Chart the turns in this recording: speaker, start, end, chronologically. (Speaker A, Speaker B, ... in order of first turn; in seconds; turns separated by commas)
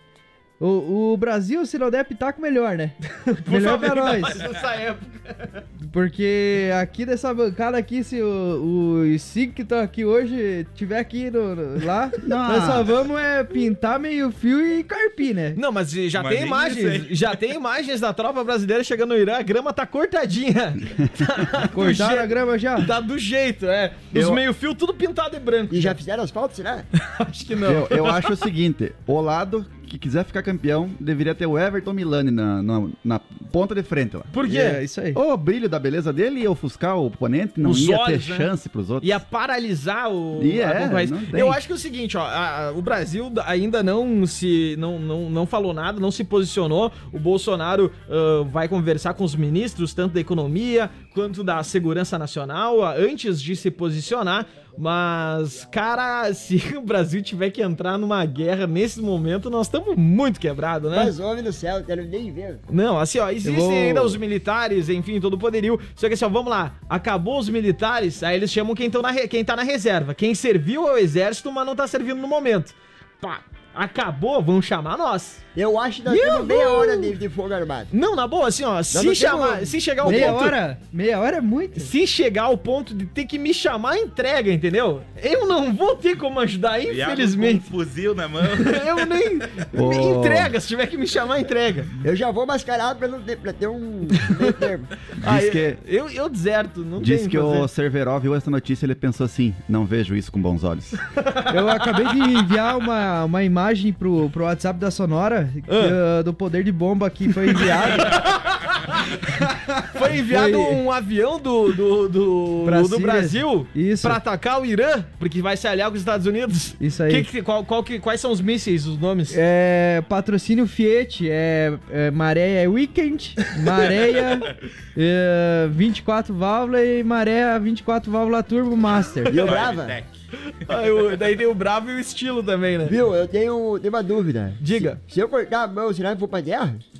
Speaker A: 0.6-3.0, Speaker B: 3.2-5.6, Speaker A: 3.5-4.4, Speaker A: 5.8-15.6, Speaker C: 12.2-12.9, Speaker B: 15.5-26.0, Speaker D: 16.1-17.2, Speaker A: 21.7-22.9, Speaker C: 24.1-24.4, Speaker E: 25.7-26.9, Speaker B: 27.0-28.4, Speaker C: 27.6-34.3, Speaker B: 34.3-34.8, Speaker A: 34.5-35.2, Speaker C: 35.1-39.2, Speaker B: 37.6-38.5, Speaker B: 39.0-61.1, Speaker C: 40.4-41.6, Speaker E: 60.9-62.6, Speaker B: 62.7-75.4, Speaker A: 63.4-64.2, Speaker E: 75.5-77.9, Speaker B: 76.1-77.2, Speaker B: 77.9-80.5, Speaker E: 78.9-80.5, Speaker A: 80.0-81.9, Speaker B: 81.8-87.7, Speaker D: 86.9-89.1, Speaker B: 88.5-91.9, Speaker C: 89.7-90.5, Speaker E: 92.0-94.9, Speaker C: 95.2-95.8, Speaker B: 95.2-97.7, Speaker C: 97.0-101.0, Speaker B: 101.1-102.0, Speaker A: 101.5-108.2, Speaker B: 105.7-106.0, Speaker B: 107.6-119.4, Speaker A: 109.7-110.8, Speaker A: 112.6-114.2, Speaker A: 116.8-117.3, Speaker A: 119.3-129.5, Speaker E: 129.3-130.0, Speaker D: 129.4-130.1, Speaker B: 130.7-133.0, Speaker E: 132.9-136.8, Speaker B: 134.6-135.0